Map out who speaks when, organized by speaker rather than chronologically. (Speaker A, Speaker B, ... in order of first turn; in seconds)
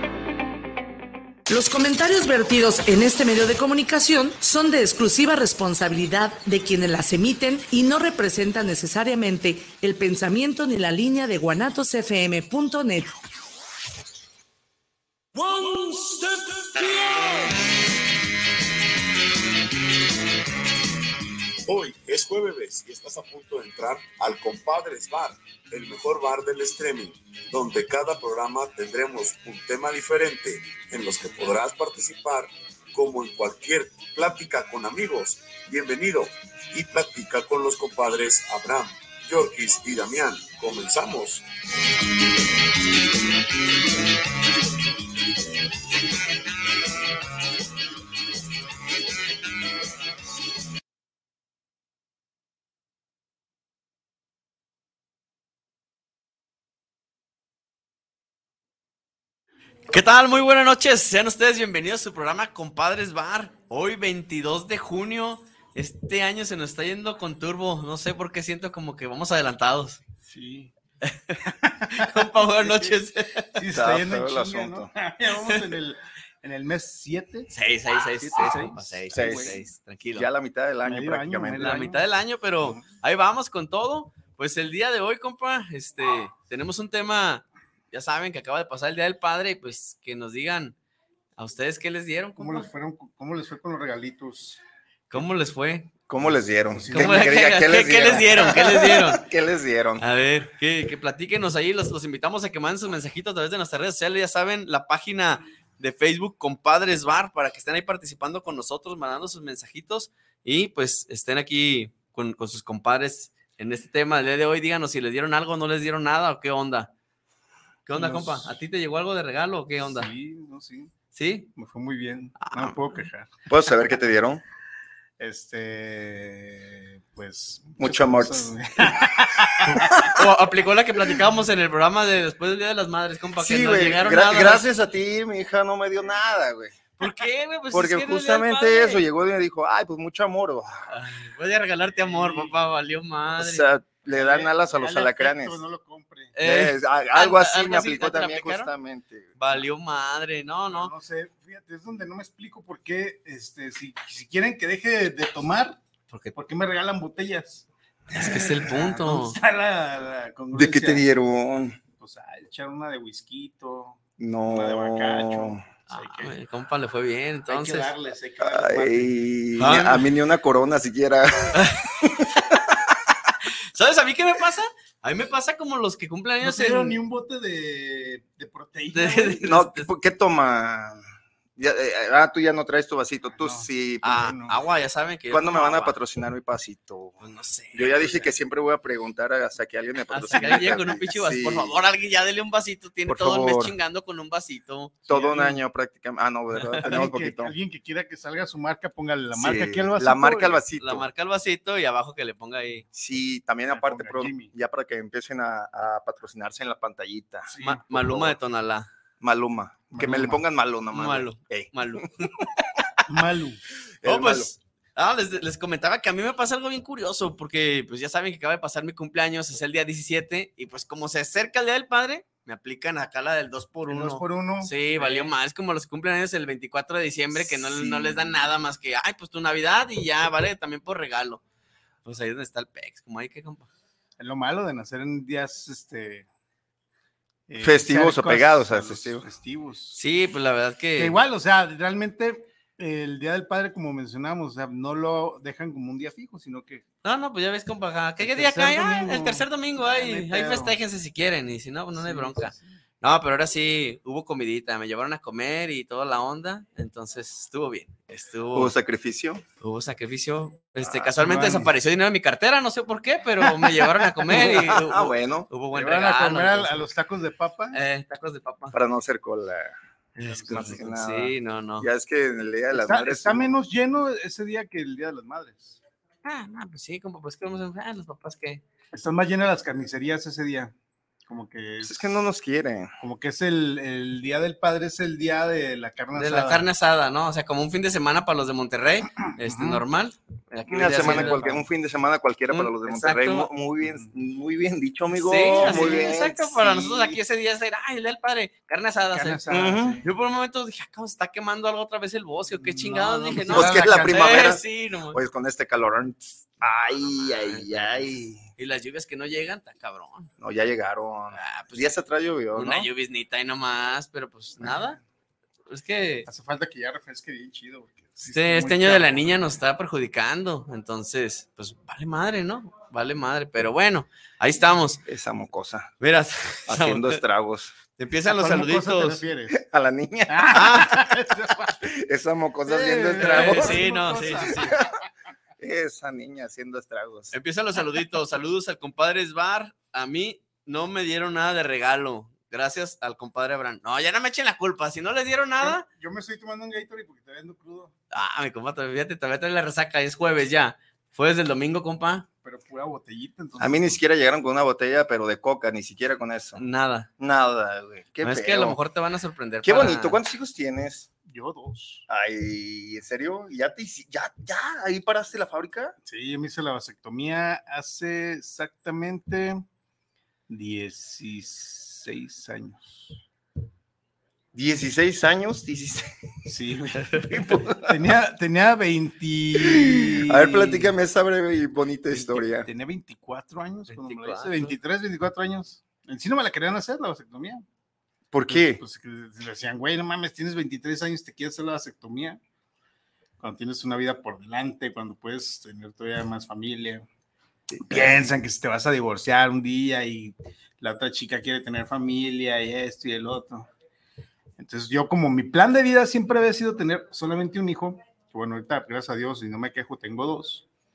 Speaker A: 1.5-13.1
Speaker B: 15.3-17.7, 21.6-41.5
Speaker C: 59.9-70.0, 71.0-71.4, 71.9-73.5, 75.3-75.7, 77.5-80.3, 81.6-90.8, 91.4-92.7, 95.1-95.9, 96.9-99.2, 100.0-116.9, 117.8-120.1, 121.1-121.5, 122.4-123.1, 129.7-134.7, 137.0-139.0, 140.9-143.7, 146.3-148.7, 149.4-150.9, 156.1-156.3, 158.1-159.4, 165.9-167.9, 169.6-170.1, 171.5-171.9, 173.4-177.0, 178.9-179.9, 184.0-185.9, 187.2-188.3, 190.1-195.0, 196.5-196.9, 200.8-202.8, 207.6-208.9, 210.9-212.4, 214.0-231.4, 232.0-233.7, 239.9-241.2, 247.0-258.7, 259.6-266.9, 267.7-268.8, 270.1-271.9, 276.2-278.6, 286.1-291.6, 292.5-293.5, 295.1-299.4, 300.0-305.2, 307.4-307.8, 308.6-310.3, 311.3-311.9, 312.5-315.0, 315.7-316.3, 318.2-325.0, 326.0-327.2, 328.0-329.2, 330.5-331.1, 333.2-334.7, 337.3-345.9, 348.1-352.3, 356.6-357.1, 358.2-360.2, 383.9-384.7
Speaker D: 70.2-70.7, 71.5-73.0, 73.5-77.5, 78.2-79.6, 80.8-82.0, 92.4-94.6, 96.2-98.5, 118.0-118.5, 119.8-120.9, 121.5-123.3, 125.2-130.2, 141.8-142.6, 144.1-146.3, 150.7-155.8, 156.3-161.0, 162.0-166.3, 167.5-170.0, 176.4-179.6, 183.3-184.6, 190.3-191.0, 195.1-195.6, 196.8-200.6, 203.7-204.5, 207.5-207.8, 209.9-210.4, 213.1-213.6, 223.9-225.3, 227.3-228.4, 234.2-236.3, 237.5-240.0, 241.0-246.8, 248.2-250.8, 251.9-252.8, 261.2-261.7, 265.7-267.8, 270.2-270.9, 272.7-275.8, 278.9-280.7, 281.3-282.2, 283.0-286.6, 289.3-289.8, 290.9-291.4, 293.8-294.1, 295.5-297.2, 299.1-300.1, 302.5-304.6, 314.6-315.0, 316.3-319.3, 328.3-329.6, 330.3-331.9, 332.6-334.9, 345.6-347.9, 352.4-354.0, 361.2-362.0, 366.0-369.6, 370.5-373.2, 376.4-380.9, 382.1-387.6, 388.5-392.4, 393.4-397.1, 397.8-403.7, 404.6-410.6
Speaker E: 73.7-74.9, 79.1-79.6, 80.1-81.8, 96.1-100.0, 123.5-124.4, 127.8-128.5, 129.7-130.3, 133.4-136.8, 137.7-140.9, 143.4-145.6, 146.4-149.4, 160.5-161.8, 164.2-165.6, 168.4-172.9, 179.4-181.0, 181.6-184.3, 185.3-187.2, 187.7-191.8, 193.1-193.8, 195.1-197.5, 199.3-201.1, 202.9-208.4, 209.2-212.5, 214.0-214.5, 237.6-239.2, 258.5-259.4, 260.8-261.1, 264.2-265.5, 268.7-269.7, 270.5-273.6, 281.8-282.9, 290.7-296.6, 299.5-300.0, 303.5-308.5, 310.4-312.9, 325.1-325.9, 326.7-327.7, 329.5-330.9, 331.4-333.9, 334.5-334.9, 335.6-337.3, 353.6-356.6, 357.2-358.8, 359.6-361.1, 362.1-365.9, 374.5-376.1, 377.2-378.1, 379.6-382.7, 388.3-388.8, 397.7-398.3